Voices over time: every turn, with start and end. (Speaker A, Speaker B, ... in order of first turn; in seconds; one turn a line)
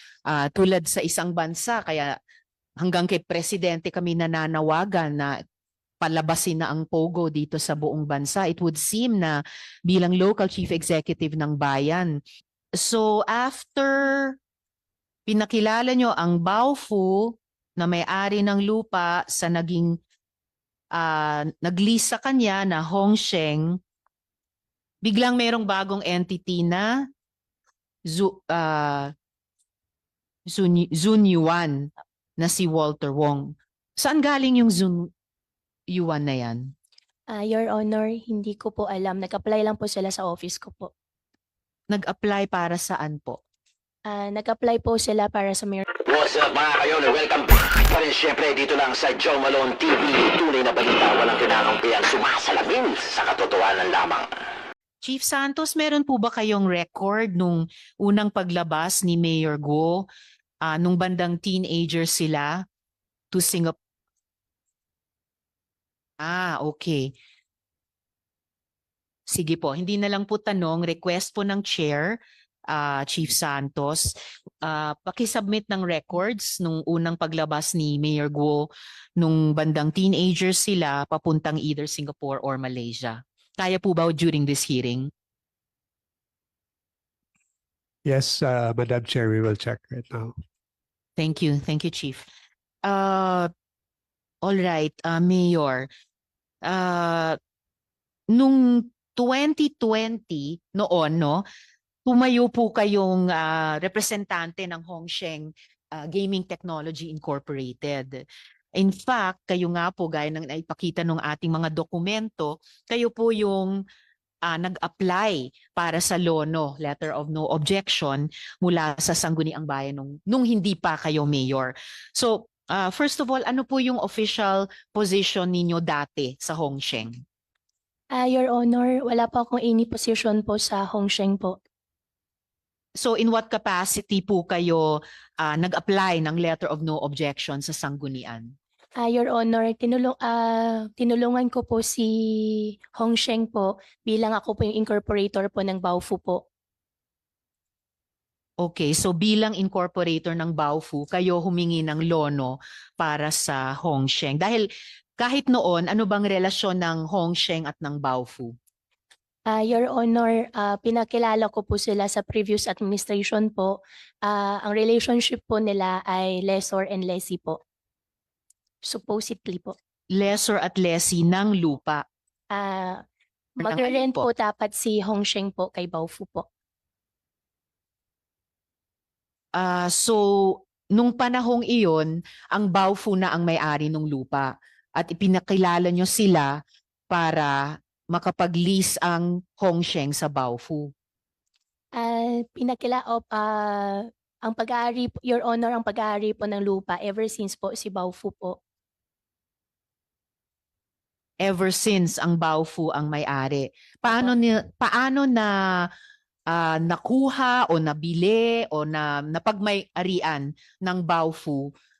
Speaker A: 0.3-2.1
Speaker A: 2.8-5.3
Speaker A: 6.0-12.1
Speaker A: 12.8-14.4
Speaker A: 15.3-20.0
Speaker A: 20.9-23.8
Speaker A: 25.0-26.9
Speaker A: 28.1-29.1
Speaker A: 30.5-35.1
Speaker A: 35.9-36.7
Speaker B: 37.3-40.9
Speaker A: 41.9-43.4
Speaker B: 44.1-45.8
Speaker C: 46.0-54.3
Speaker A: 55.0-60.0
Speaker A: 60.6-62.6
Speaker A: 63.3-63.8
Speaker A: 66.2-67.1
Speaker A: 69.3-72.2
Speaker A: 72.7-78.7
Speaker A: 79.2-85.1
Speaker D: 88.1-90.3
Speaker A: 91.2-92.3
Speaker A: 92.8-93.5
Speaker A: 94.4-95.9
Speaker A: 96.6-97.4
Speaker A: 98.3-101.4
Speaker A: 102.1-108.2
Speaker A: 108.8-113.8
Speaker A: 114.5-127.1
Speaker B: 128.1-131.6
Speaker A: 133.0-138.5
Speaker B: 139.0-146.4
Speaker A: 148.6-154.7
Speaker A: 155.2-158.5
Speaker B: 159.5-167.6
Speaker B: 168.8-169.8
Speaker A: 170.1-172.0
Speaker B: 172.5-173.0
Speaker A: 173.6-174.2
Speaker B: 173.6-176.4
Speaker A: 179.6-186.6
Speaker A: 187.1-190.9
Speaker B: 192.0-198.6
Speaker A: 201.4-205.9
Speaker B: 204.1-204.3
Speaker A: 206.5-211.7